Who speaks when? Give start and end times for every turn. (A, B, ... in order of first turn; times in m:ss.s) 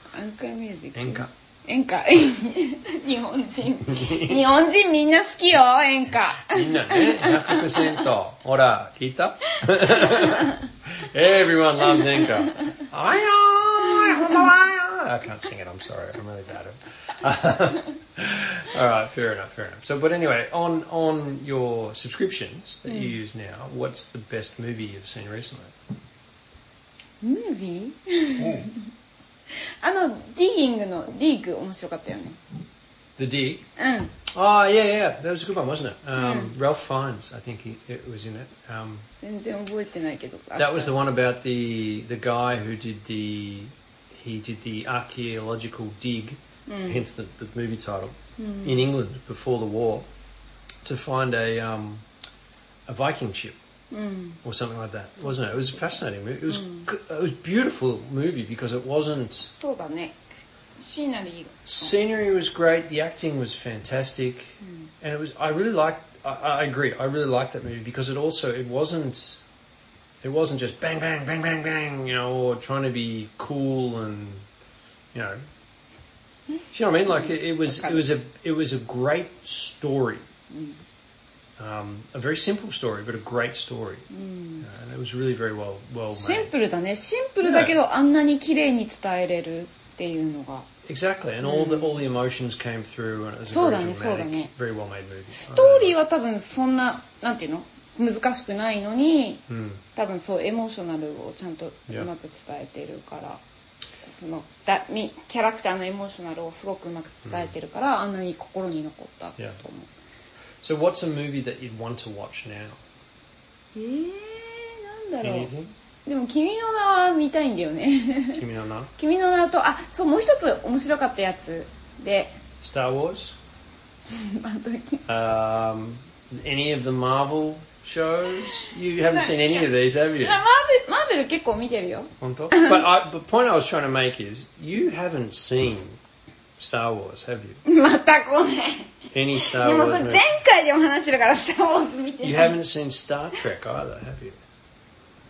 0:00.1-0:08.0 A
0:01.0-0:01.3 B
0:03.8-0:04.4 B
0:06.4-0:25.8 B
0:09.9-0:10.6 A
0:11.9-0:12.7 A
0:13.9-0:14.5 A
0:22.9-0:23.2 A
0:27.2-0:28.8 A
0:28.4-0:28.7 B
0:29.5-0:32.4 A
0:33.2-0:33.7 B
0:33.8-0:34.1 A
0:34.3-0:39.1 B
0:36.2-0:36.5 A
0:39.2-0:41.1 A
0:40.6-0:50.1 B
0:46.7-0:47.0 A
0:48.4-0:48.8 A
0:50.8-0:52.0 B
0:52.9-0:53.6 B
0:53.9-0:54.4 A
0:54.4-0:59.6 B
0:56.5-0:56.9 A
0:59.6-1:02.0 A
1:01.7-1:09.4 B
1:10.2-1:14.5 B
1:15.1-1:15.4 B
1:16.7-1:20.3 B
1:17.1-1:18.0 A
1:20.5-1:20.8 A
1:21.6-1:24.1 B
1:24.1-1:24.6 A
1:24.6-1:26.5 B
1:26.1-1:30.7 A
1:27.4-1:27.7 B
1:30.9-1:36.0 B
1:31.4-1:31.9 A
1:33.5-1:34.5 A
1:35.5-1:39.4 A
1:39.5-1:39.8 B
1:40.0-1:43.4 A
1:44.0-1:49.9 A
1:47.2-1:47.5 B
1:50.6-1:52.8 B
1:53.8-1:55.5 A
1:55.2-1:55.7 B
1:56.0-1:58.4 A
1:58.3-1:58.9 B
1:59.0-2:02.4 A
2:02.6-2:03.4 B
2:04.1-2:05.0 A
2:05.1-2:10.4 B
2:09.1-2:09.7 A
2:10.2-2:12.8 A
2:12.2-2:16.0 B
2:16.6-2:17.6 B
2:17.6-2:22.6 A
2:19.1-2:20.3 B
2:22.2-2:24.4 B